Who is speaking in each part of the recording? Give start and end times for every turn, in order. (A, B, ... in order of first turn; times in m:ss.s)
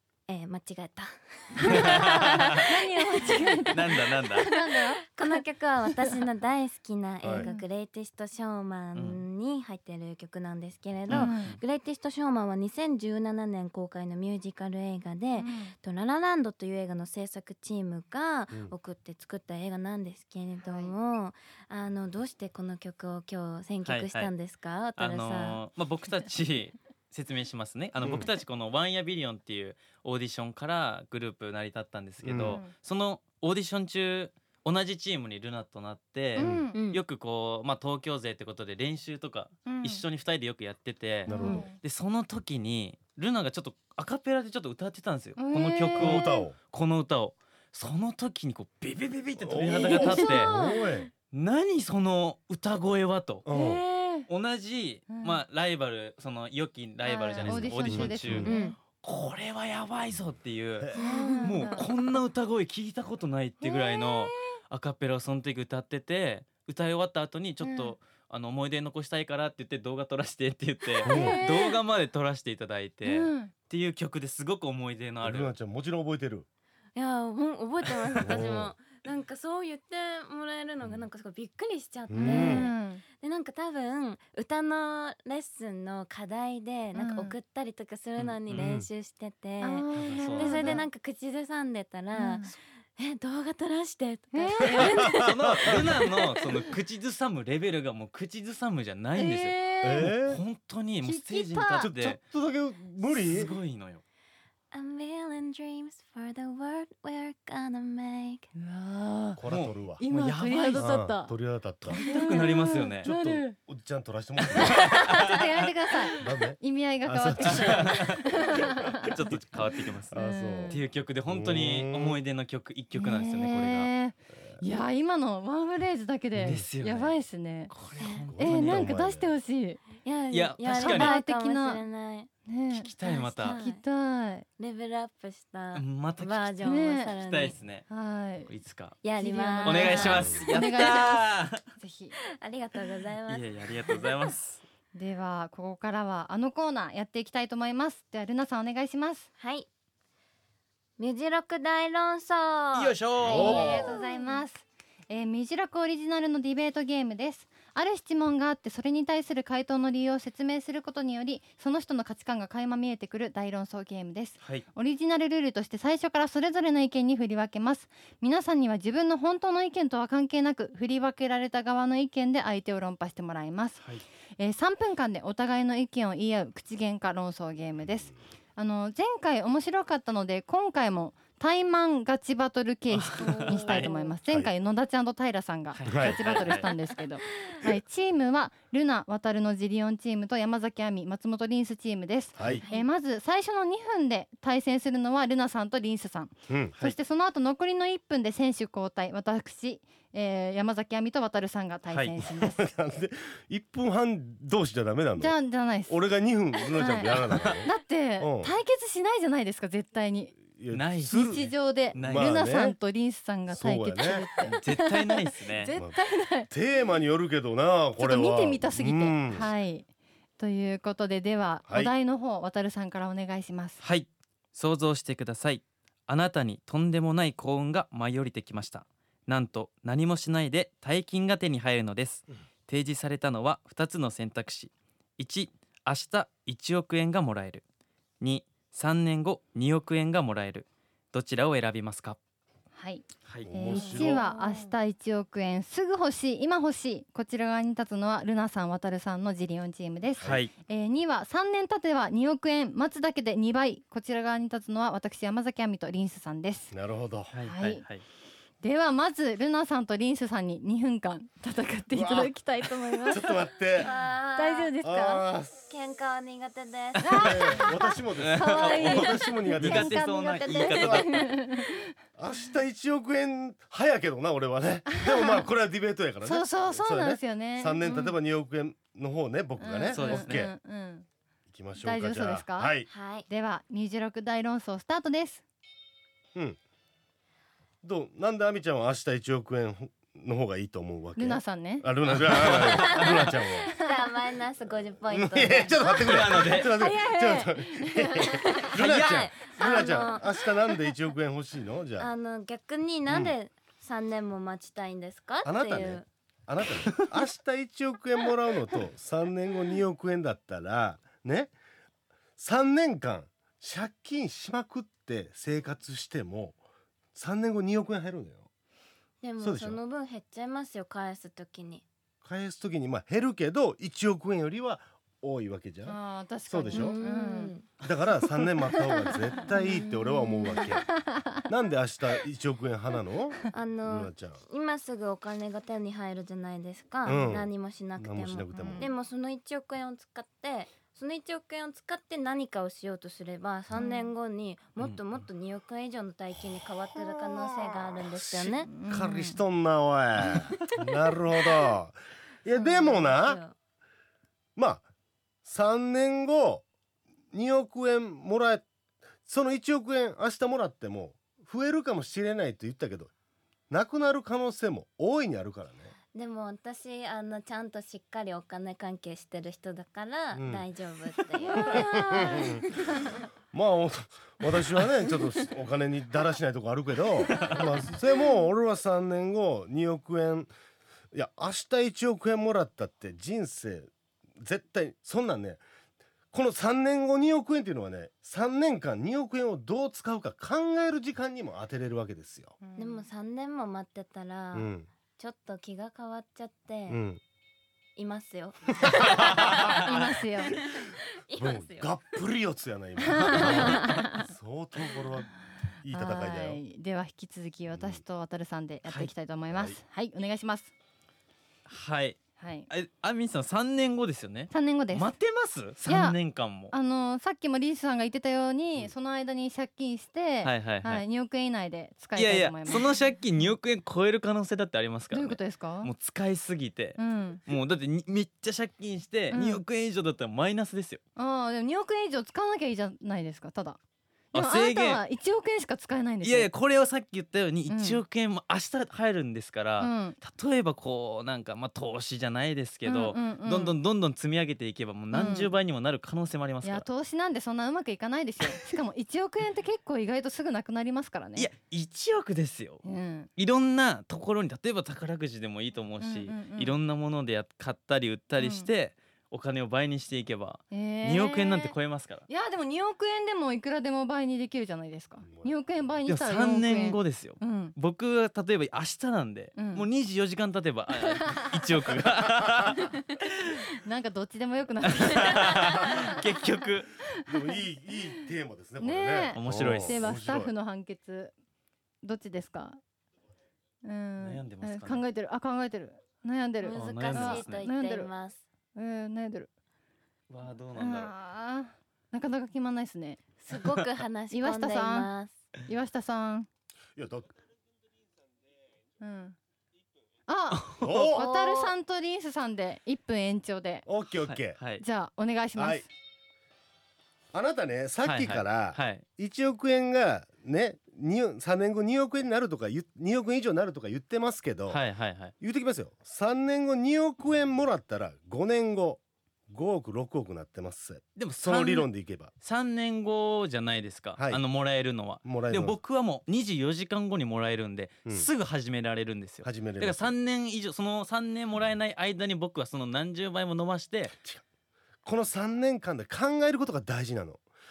0:00.3-0:25.6 A
0:01.6-0:06.1 B
0:01.6-0:02.4 C
0:03.7-0:04.5 C
0:07.2-0:07.5 D
0:07.4-0:07.6 B
0:08.9-0:09.2 C
0:11.1-0:11.6 C
0:11.1-0:11.5 B
0:15.4-0:15.7 B
0:23.8-0:24.3 C
0:25.0-0:50.6 C
0:28.0-0:28.3 D
0:32.2-0:32.6 D
0:32.4-0:32.7 B
0:36.3-0:36.8 B
0:36.4-0:36.7 D
0:36.7-0:37.0 A
0:39.6-0:40.0 B
0:41.2-0:41.8 B
0:41.3-0:41.6 D
0:41.3-0:41.6 A
0:45.4-0:46.4 B
0:46.0-0:46.6 D
0:49.4-0:51.1 D
0:49.8-0:51.0 B
0:51.3-0:53.5 C
0:53.4-0:53.8 D
0:53.5-0:54.3 B
0:54.3-1:00.9 C
0:55.1-0:55.4 B
0:57.0-0:58.7 B
0:57.4-0:58.5 D
0:58.4-0:58.8 A
1:00.8-1:01.0 D
1:01.0-1:01.6 A
1:01.0-1:01.9 B
1:01.4-1:15.5 C
1:03.6-1:04.4 B
1:07.6-1:07.9 B
1:11.0-1:11.5 B
1:11.0-1:11.4 D
1:13.0-1:13.5 B
1:15.2-1:16.5 D
1:16.9-1:36.6 A
1:18.2-1:18.7 D
1:22.1-1:22.7 D
1:22.2-1:23.0 B
1:26.9-1:27.3 B
1:28.2-1:28.7 C
1:28.6-1:28.9 D
1:29.6-1:30.8 B
1:29.9-1:30.8 C
1:32.1-1:32.5 B
1:34.3-1:35.2 B
1:34.8-1:35.8 D
1:35.0-1:42.2 C
1:39.1-1:40.1 B
1:39.8-1:40.4 D
1:41.0-1:41.9 B
1:41.8-1:43.6 D
1:43.0-1:44.0 C
1:44.7-1:48.5 A
1:48.6-1:49.4 B
1:49.4-1:50.0 D
1:49.4-1:50.9 C
1:50.0-1:51.3 B
1:50.7-1:52.0 D
1:51.8-1:53.2 C
1:52.0-1:53.5 B
1:53.0-1:55.0 D
1:54.6-1:59.1 B
1:54.7-1:55.6 C
1:56.2-1:59.1 D
1:57.4-1:58.2 C
1:59.0-2:03.9 C
2:00.1-2:02.2 D
2:00.1-2:00.8 B
2:03.0-2:07.7 B
2:06.4-2:06.7 D
2:06.4-2:07.2 C
2:07.7-2:08.9 C
2:08.0-2:08.3 A
2:08.3-2:09.3 D
2:08.4-2:09.9 B
2:10.0-2:12.3 A
2:10.3-2:11.2 C
2:10.7-2:11.8 B
2:12.5-2:14.4 B
2:12.7-2:13.6 C
2:13.0-2:13.8 A
2:14.6-2:17.6 A
2:15.7-2:16.6 C
2:16.6-2:17.1 B
2:17.2-2:17.8 C
2:17.9-2:18.5 B
2:18.5-2:19.0 C
2:19.0-2:20.3 A
2:19.2-2:21.2 B
2:19.6-2:21.6 C
2:20.1-2:20.5 D
2:21.8-2:22.2 B
2:22.4-2:24.3 A
2:23.3-2:24.6 C
2:24.9-2:29.3 B
2:29.4-2:29.7 A
2:31.0-2:34.4 A
2:32.7-2:33.8 C
2:33.2-2:34.0 D
2:33.3-2:53.8 B
2:54.4-3:22.7 B
3:02.9-3:03.9 C
3:03.2-3:04.1 A
3:05.7-3:06.7 C
3:05.8-3:06.3 D
3:06.5-3:06.8 A
3:12.4-3:12.6 D
3:16.5-3:16.8 D
3:21.9-3:22.2 C
3:22.2-3:28.5 D
3:25.2-3:26.1 B
3:26.8-3:27.1 B
3:27.2-3:27.6 C
3:27.6-3:30.4 B
3:30.5-3:32.8 D
3:30.7-3:32.4 C
3:31.1-3:36.5 B
3:33.5-3:34.3 D
3:34.4-3:35.7 C
3:36.5-3:39.5 D
3:38.0-3:39.9 B
3:40.4-3:43.8 B
3:43.8-3:57.6 C
3:58.2-4:02.2 C
4:02.8-4:16.7 B
4:03.4-4:04.2 D
4:03.7-4:04.7 A
4:10.2-4:10.4 D
4:10.2-4:10.5 C
4:16.7-4:17.3 D
4:17.3-4:18.0 C
4:17.4-4:17.8 B
4:18.6-4:23.4 B
4:21.9-4:22.3 D
4:23.0-4:23.9 D
4:23.8-4:24.7 A
4:24.3-4:25.2 B
4:24.8-4:25.7 D
4:25.7-4:27.2 A
4:27.0-4:31.8 B
4:27.2-4:30.0 D
4:28.2-4:29.0 C
4:28.8-4:29.4 A
4:29.5-4:31.1 C
4:30.2-4:31.6 A
4:30.8-4:31.2 D
4:32.2-4:40.5 D
4:34.9-4:35.4 B
4:36.2-4:38.2 B
4:39.6-4:41.0 B
4:39.9-4:40.5 C
4:41.5-4:42.9 D
4:41.8-4:45.4 B
4:42.9-4:43.3 A
4:47.8-4:53.8 D
4:51.2-4:51.9 B
4:52.2-4:53.1 C
4:52.6-4:56.2 A
4:55.1-5:02.1 D
4:56.0-4:56.7 C
4:56.4-4:58.6 B
4:58.4-5:00.2 A
4:58.7-4:59.3 C
4:59.6-5:00.3 B
5:02.0-5:06.1 A
5:03.0-5:03.4 D
5:05.4-5:11.5 D
5:12.4-5:16.6 D
5:17.1-5:18.5 D
5:19.2-5:21.8 A
5:19.4-5:19.8 D
5:22.2-5:27.0 D
5:25.8-5:27.5 B
5:26.7-5:27.7 A
5:27.8-5:34.4 D
5:28.6-5:29.4 B
5:29.5-5:30.6 A
5:30.4-5:30.8 B
5:33.5-5:48.7 A
5:37.0-5:38.9 D
5:38.5-5:38.9 B
5:43.8-5:44.1 B
5:48.0-5:53.4 D
5:48.5-5:49.4 B
5:52.6-5:53.5 A
5:54.6-5:54.8 D
5:55.4-5:56.6 D
5:57.3-5:58.6 D
5:59.2-6:03.1 D
6:03.7-6:05.9 D
6:06.1-6:13.0 A
6:10.3-6:10.6 D
6:11.6-6:12.8 D
6:13.5-6:20.5 D
6:17.4-6:17.7 A
6:21.1-6:25.6 D
6:26.3-6:32.6 D
6:32.6-6:33.0 B
6:32.8-6:37.0 A
6:34.5-6:34.9 D
6:36.9-6:37.2 D
6:38.0-6:39.5 A
6:38.8-6:39.6 D
6:39.0-6:40.1 C
6:39.8-6:40.5 B
6:40.6-6:42.0 A
6:41.4-6:46.6 D
6:43.1-6:44.3 B
6:43.3-6:43.9 C
6:45.9-6:50.7 B
6:47.7-6:48.0 D
6:48.8-6:49.1 C
6:49.5-6:49.8 D
6:51.7-6:56.7 C
6:52.4-6:52.7 B
6:54.5-6:55.2 B
6:55.8-6:56.2 B
6:56.7-7:02.8 B
7:00.4-7:01.0 C
7:02.2-7:11.0 C
7:05.1-7:05.9 B
7:07.0-7:07.4 B
7:09.3-7:09.6 B
7:11.2-7:13.8 B
7:14.3-7:16.5 B
7:14.3-7:15.0 C
7:16.2-7:26.8 C
7:17.7-7:18.0 B
7:19.8-7:20.2 B
7:22.8-7:23.8 B
7:25.1-7:25.5 B
7:26.6-7:31.5 B
7:31.4-7:32.8 C
7:32.8-7:33.3 B
7:33.4-7:42.3 C
7:36.0-7:36.8 B
7:38.4-7:38.7 B
7:40.7-7:41.8 B
7:42.3-7:47.8 B
7:45.2-7:45.5 D
7:46.1-7:53.6 C
7:49.6-7:49.8 B
7:51.2-7:51.6 B
7:53.8-7:56.2 B
7:54.9-7:56.9 C
7:57.2-7:57.6 B
7:57.2-8:00.5 D
7:58.8-8:01.3 B
7:59.3-8:00.1 C
8:02.0-8:02.8 B
8:03.8-8:08.1 B
8:04.2-8:05.0 C
8:06.6-8:08.4 A
8:06.7-8:07.6 C
8:08.8-8:09.5 B
8:10.3-8:11.1 C
8:10.7-8:13.2 B
8:13.4-8:15.4 A
8:14.3-8:15.1 B
8:15.6-8:16.5 B
8:17.0-8:17.3 D
8:19.0-8:19.3 B
8:20.3-8:23.8 B
8:20.6-8:21.1 C
8:20.8-8:21.2 D
8:21.1-8:21.7 A
8:23.8-8:24.6 D
8:24.2-8:24.8 C
8:24.8-8:25.9 B
8:25.6-8:25.9 D
8:27.3-8:34.8 D
8:28.0-8:29.0 C
8:34.7-8:35.3 C
8:35.4-8:42.3 D
8:41.2-8:41.9 C
8:42.4-8:54.1 C
8:44.2-8:44.4 D
8:45.2-8:45.8 D
8:49.4-8:50.1 D
8:55.0-8:57.4 D